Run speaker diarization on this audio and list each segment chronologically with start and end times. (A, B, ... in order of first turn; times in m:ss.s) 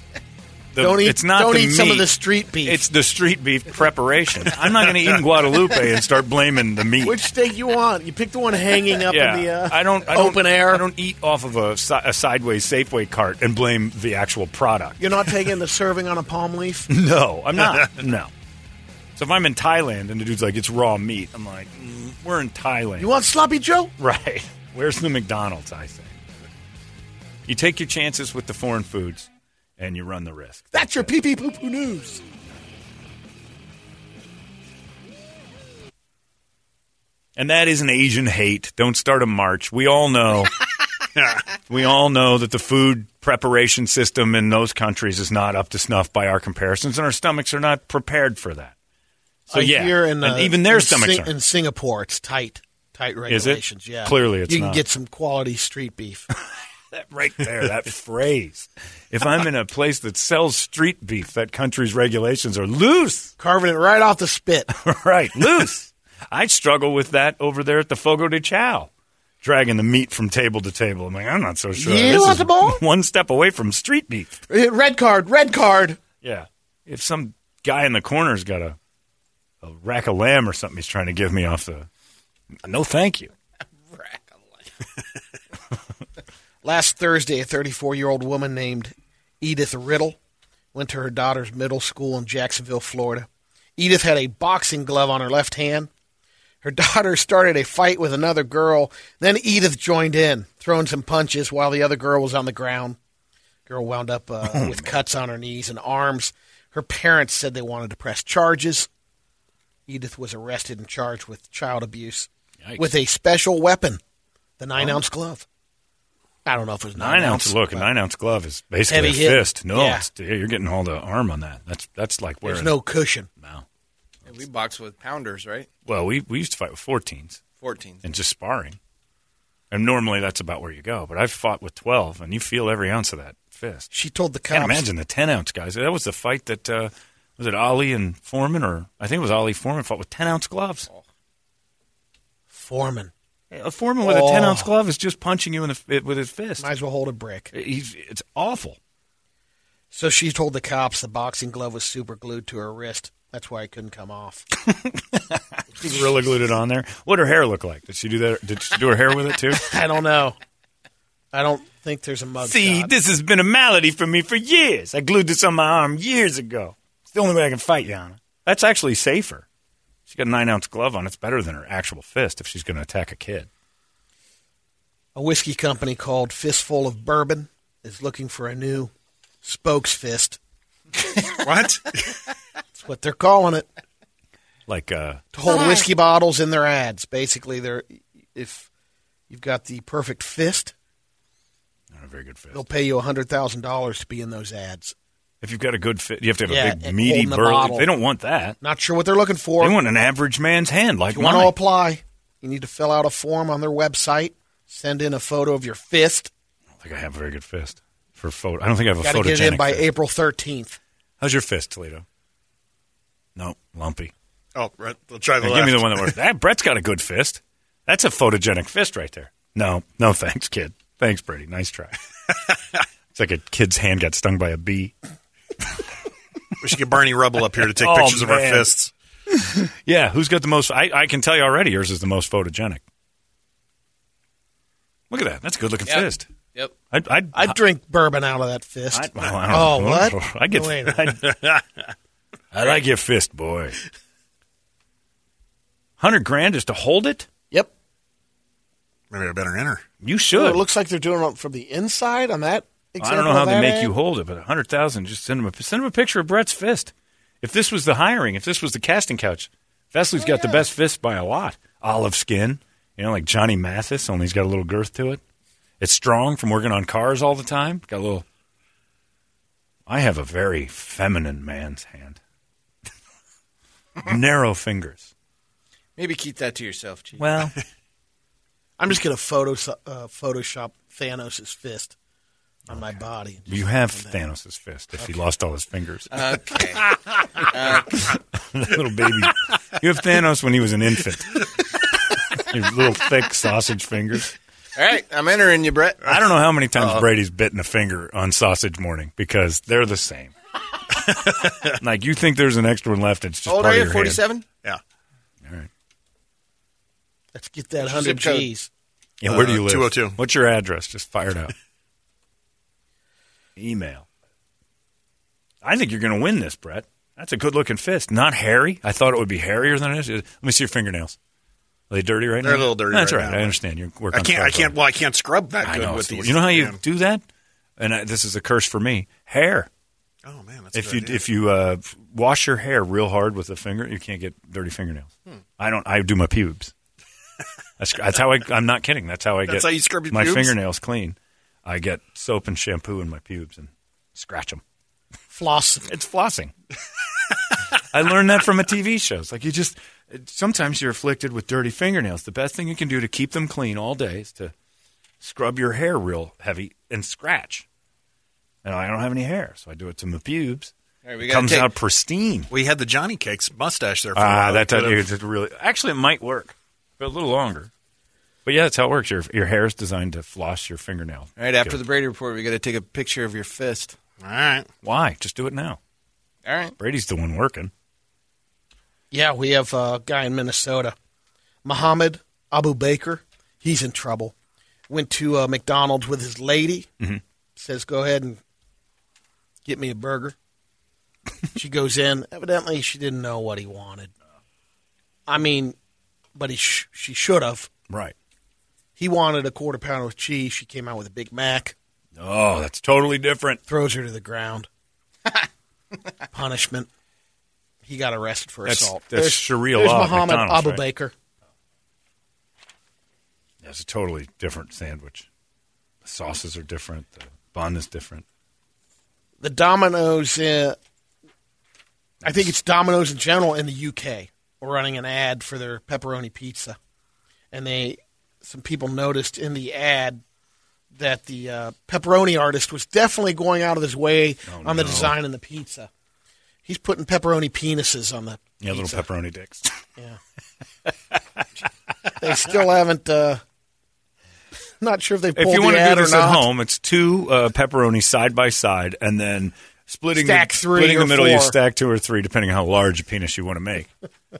0:00.7-0:02.1 A
0:00.8-0:02.8 B
0:02.6-0:07.2 A
0:07.0-0:10.9 B
0:09.1-0:15.0 A
0:15.0-0:16.9 B
0:16.9-0:18.3 A
0:19.2-0:23.1 A
0:23.0-0:23.9 B
0:24.0-0:26.2 A
0:27.4-0:31.1 A
0:30.7-0:32.2 B
0:37.4-0:40.6 A
0:41.2-0:41.4 C
0:41.7-0:48.7 A
0:49.5-0:51.3 A
0:49.5-0:56.3 B
0:53.3-0:54.8 A
0:56.9-1:03.3 A
1:03.4-1:04.7 B
1:04.7-1:08.9 A
1:09.4-1:14.4 A
1:11.7-1:12.8 B
1:14.5-1:16.0 B
1:16.2-1:18.8 A
1:19.6-1:21.9 A
1:22.6-1:23.3 A
1:23.9-1:24.6 D
1:26.6-1:30.2 B
1:30.7-1:35.9 B
1:36.6-1:43.0 B
1:43.7-1:48.9 B
1:44.4-1:44.9 A
1:49.9-1:54.0 B
1:52.6-1:52.9 A
1:54.6-1:55.4 B
1:56.4-1:57.9 B
1:57.0-2:03.6 A
1:58.9-2:00.1 B
2:02.4-2:03.3 B
2:04.2-2:05.7 D
2:05.8-2:07.4 A
2:07.6-2:08.0 D
2:08.0-2:08.8 A
2:09.7-2:13.9 A
2:13.9-2:14.9 B
2:14.5-2:20.9 A
2:22.5-2:23.1 B
2:23.5-2:26.7 A
2:24.0-2:24.7 B
2:26.6-2:27.5 B
2:27.5-2:28.8 A
2:29.9-2:34.4 B
2:34.6-2:39.6 A
2:39.6-2:40.4 B
2:41.3-2:42.9 B
2:42.4-2:49.4 A
2:50.1-2:53.5 A
2:55.1-2:58.9 B
2:59.4-3:00.4 B
3:01.4-3:02.2 C
3:02.8-3:03.7 B
3:04.7-3:05.2 A
3:05.3-3:08.7 B
3:09.3-3:10.7 B
3:11.9-3:12.6 A
3:12.5-3:14.9 B
3:15.4-3:18.6 A
3:16.5-3:17.9 B
3:18.6-3:19.8 B
3:19.6-3:21.5 A
3:21.1-3:26.3 B
3:26.8-3:29.8 A
3:29.0-3:30.8 B
3:31.2-3:32.0 A
3:33.4-3:34.1 A
3:34.5-3:36.2 C
3:35.4-3:41.9 A
3:43.1-3:44.9 A
3:46.6-3:48.9 C
3:47.8-3:48.7 A
3:49.3-3:52.8 A
3:55.1-3:56.2 A
3:55.8-3:56.7 D
3:56.9-3:57.6 A
3:57.3-4:01.1 B
3:58.9-4:01.6 A
4:02.5-4:03.8 A
4:06.0-4:07.3 A
4:09.1-4:09.8 C
4:10.0-4:10.6 A
4:10.3-4:13.9 B
4:13.0-4:25.2 A
4:25.8-4:28.2 A
4:29.9-4:32.2 A
4:34.0-4:35.1 A
4:36.0-4:37.5 D
4:37.2-4:37.6 A
4:38.8-4:41.9 B
4:42.7-4:44.2 B
4:43.5-4:46.3 A
4:46.1-4:48.0 D
4:47.7-4:51.5 A
4:52.3-4:54.3 A
4:54.7-4:56.1 D
4:56.0-5:00.3 A
5:01.2-5:01.7 C
5:01.8-5:04.2 A
5:03.5-5:04.4 D
5:07.3-5:08.7 B
5:07.8-5:08.5 D
5:09.2-5:11.5 A
5:09.2-5:10.2 C
5:13.6-5:14.0 A
5:15.6-5:21.2 A
5:21.9-5:24.8 A
5:22.4-5:23.6 C
5:24.1-5:26.8 C
5:25.6-5:27.2 A
5:27.8-5:29.7 A
5:30.2-5:31.2 C
5:30.7-5:36.7 A
5:37.8-5:44.6 A
5:39.4-5:40.6 C
5:45.3-5:45.9 B
5:45.9-5:46.5 A
5:47.9-5:54.5 A
5:55.2-5:57.6 A
5:58.6-6:00.7 A
6:01.0-6:01.7 D
6:01.2-6:02.5 A
6:02.5-6:05.0 C
6:04.1-6:07.7 A
6:08.4-6:11.8 A
6:11.4-6:14.0 D
6:14.2-6:14.7 C
6:14.8-6:15.8 A
6:16.4-6:16.8 D
6:16.8-6:17.7 A
6:19.1-6:20.9 B
6:21.6-6:24.3 B
6:24.9-6:26.9 B
6:27.6-6:28.4 B
6:29.6-6:30.4 B
6:31.5-6:34.1 B
6:35.3-6:35.8 B
6:36.3-6:37.7 B
6:39.0-6:41.7 B
6:42.2-6:43.6 A
6:43.7-6:44.7 B
6:46.3-6:46.9 B
6:47.8-6:51.1 B
6:48.6-6:50.8 A
6:53.6-6:55.3 A
6:56.0-6:58.2 A
6:59.4-7:00.8 B
7:02.2-7:02.5 A
7:02.2-7:06.8 B
7:07.5-7:10.2 B
7:10.9-7:15.9 B
7:14.5-7:15.2 A
7:16.6-7:19.0 B
7:18.6-7:19.7 A
7:22.2-7:23.4 B
7:24.8-7:26.4 B
7:25.4-7:33.9 A
7:30.1-7:31.6 B